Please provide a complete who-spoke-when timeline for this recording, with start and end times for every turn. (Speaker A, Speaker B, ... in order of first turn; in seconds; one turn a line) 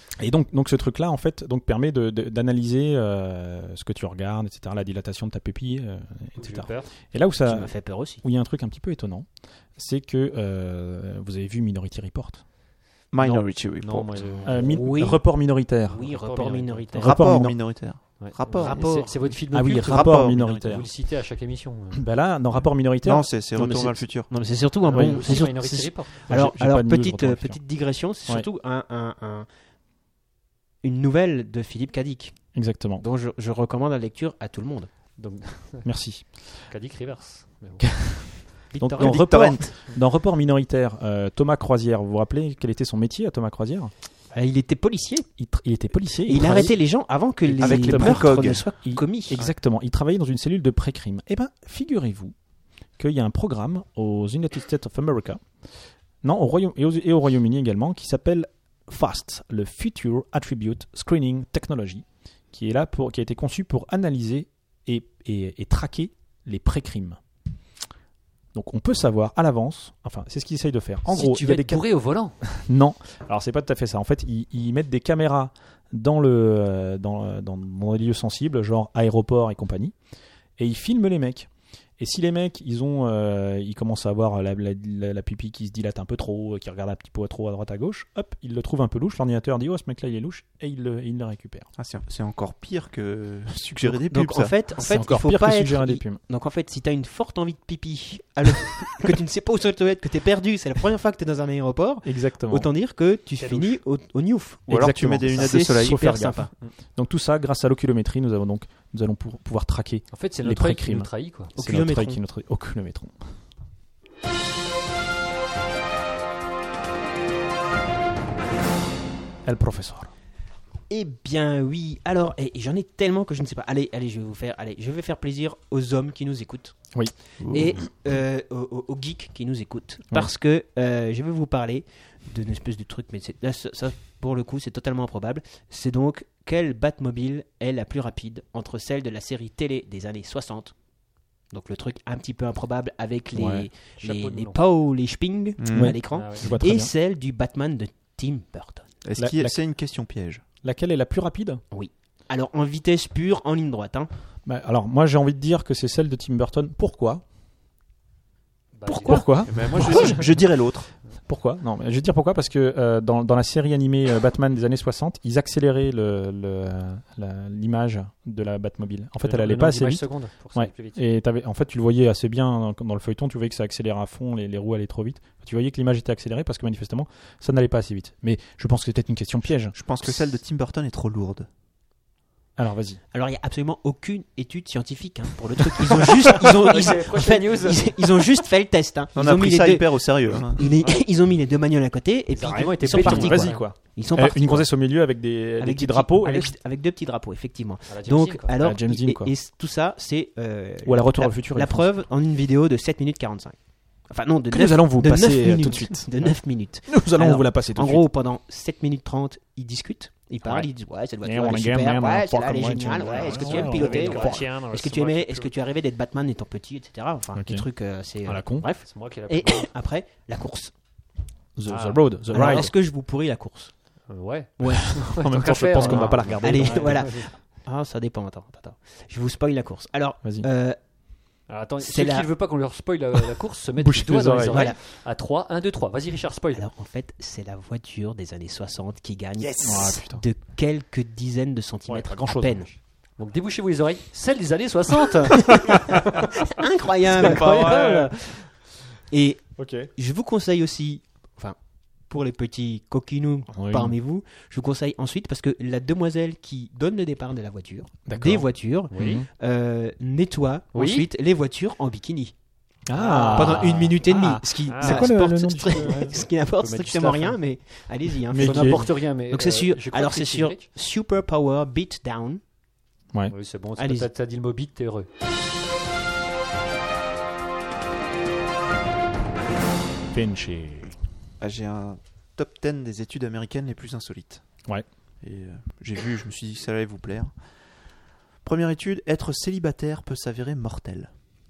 Speaker A: 0.2-12.5
Speaker B: 6.4-6.9
Speaker C: 7.5-8.2
Speaker D: 13.1-14.4
Speaker B: 13.2-14.8
Speaker A: 14.4-16.1
Speaker C: 14.6-15.3
Speaker C: 15.9-17.1
Speaker B: 16.0-16.9
Speaker A: 16.9-17.9
Speaker D: 17.0-20.9
Speaker B: 18.2-22.1
Speaker C: 18.5-19.2
Speaker A: 19.5-20.9
Speaker A: 21.9-23.3
Speaker D: 23.0-24.4
Speaker C: 23.6-29.5
Speaker B: 24.8-26.1
Speaker A: 24.9-27.6
Speaker C: 30.8-32.4
Speaker A: 32.5-33.0
Speaker C: 33.0-34.9
Speaker B: 35.2-35.9
Speaker A: 35.8-36.3
Speaker B: 36.7-38.1
Speaker A: 37.8-38.2
Speaker C: 38.7-39.5
Speaker A: 38.8-43.9
Speaker D: 39.0-39.8
Speaker C: 44.3-45.3
Speaker A: 45.4-46.8
Speaker C: 46.3-49.4
Speaker A: 47.4-52.4
Speaker D: 47.6-48.6
Speaker A: 53.0-55.4
Speaker A: 56.2-67.2
Speaker A: 68.5-71.9
Speaker B: 71.1-72.4
Speaker A: 72.4-80.0
Speaker A: 80.6-91.7
Speaker D: 91.8-94.7
Speaker C: 93.8-106.5
Speaker A: 94.8-96.2
Speaker A: 102.0-102.7
Speaker B: 103.4-103.7
Speaker D: 104.7-106.2
Speaker A: 104.7-113.2
Speaker B: 110.1-111.5
Speaker C: 111.5-112.2
Speaker A: 119.5-120.1
Speaker C: 120.9-140.7
Speaker D: 127.4-127.7
Speaker C: 141.5-148.9
Speaker A: 143.3-143.7
Speaker B: 144.0-144.6
Speaker D: 145.6-146.0
Speaker A: 145.7-146.9
Speaker B: 146.1-146.5
Speaker D: 149.0-150.4
Speaker A: 149.2-149.6
Speaker A: 150.6-151.6
Speaker C: 151.7-154.1
Speaker A: 154.4-157.2
Speaker B: 158.8-160.3
Speaker A: 158.9-160.2
Speaker D: 159.2-160.9
Speaker A: 161.3-179.8
Speaker B: 169.2-171.0
Speaker D: 179.7-181.5
Speaker A: 182.6-183.0
Speaker C: 183.1-194.7
Speaker B: 186.3-188.1
Speaker D: 189.2-190.6
Speaker B: 192.3-193.6
Speaker A: 192.8-196.5
Speaker C: 195.6-203.6
Speaker B: 197.9-198.5
Speaker A: 198.6-199.3
Speaker A: 200.8-201.9
Speaker C: 204.1-220.7
Speaker A: 204.5-208.1
Speaker A: 211.2-214.5
Speaker B: 213.0-215.5
Speaker A: 217.3-217.7
Speaker A: 218.2-218.7
Speaker B: 218.8-219.7
Speaker A: 221.6-222.7
Speaker B: 221.7-222.6
Speaker C: 222.3-223.7
Speaker B: 224.1-227.3
Speaker C: 224.6-225.0
Speaker A: 224.7-227.1
Speaker C: 225.8-230.8
Speaker A: 230.2-230.5
Speaker B: 231.5-236.7
Speaker C: 231.8-232.3
Speaker A: 233.8-234.7
Speaker C: 234.5-234.8
Speaker C: 236.5-242.7
Speaker A: 239.6-240.2
Speaker A: 241.9-242.7
Speaker B: 243.2-246.2
Speaker C: 246.5-248.5
Speaker A: 247.1-248.2
Speaker B: 247.2-247.9
Speaker C: 249.1-251.6
Speaker A: 249.6-249.9
Speaker C: 252.1-262.3
Speaker A: 253.5-254.0
Speaker A: 258.1-259.3
Speaker B: 258.9-259.2
Speaker B: 260.7-261.1
Speaker A: 262.9-266.2
Speaker C: 263.0-272.4
Speaker B: 263.0-263.7
Speaker B: 264.7-265.2
Speaker B: 265.8-267.4
Speaker A: 268.3-268.9
Speaker B: 268.4-270.7
Speaker B: 273.3-275.1
Speaker C: 273.8-274.1
Speaker A: 280.1-281.0
Speaker D: 281.4-284.4
Speaker D: 285.2-287.4
Speaker D: 288.4-291.1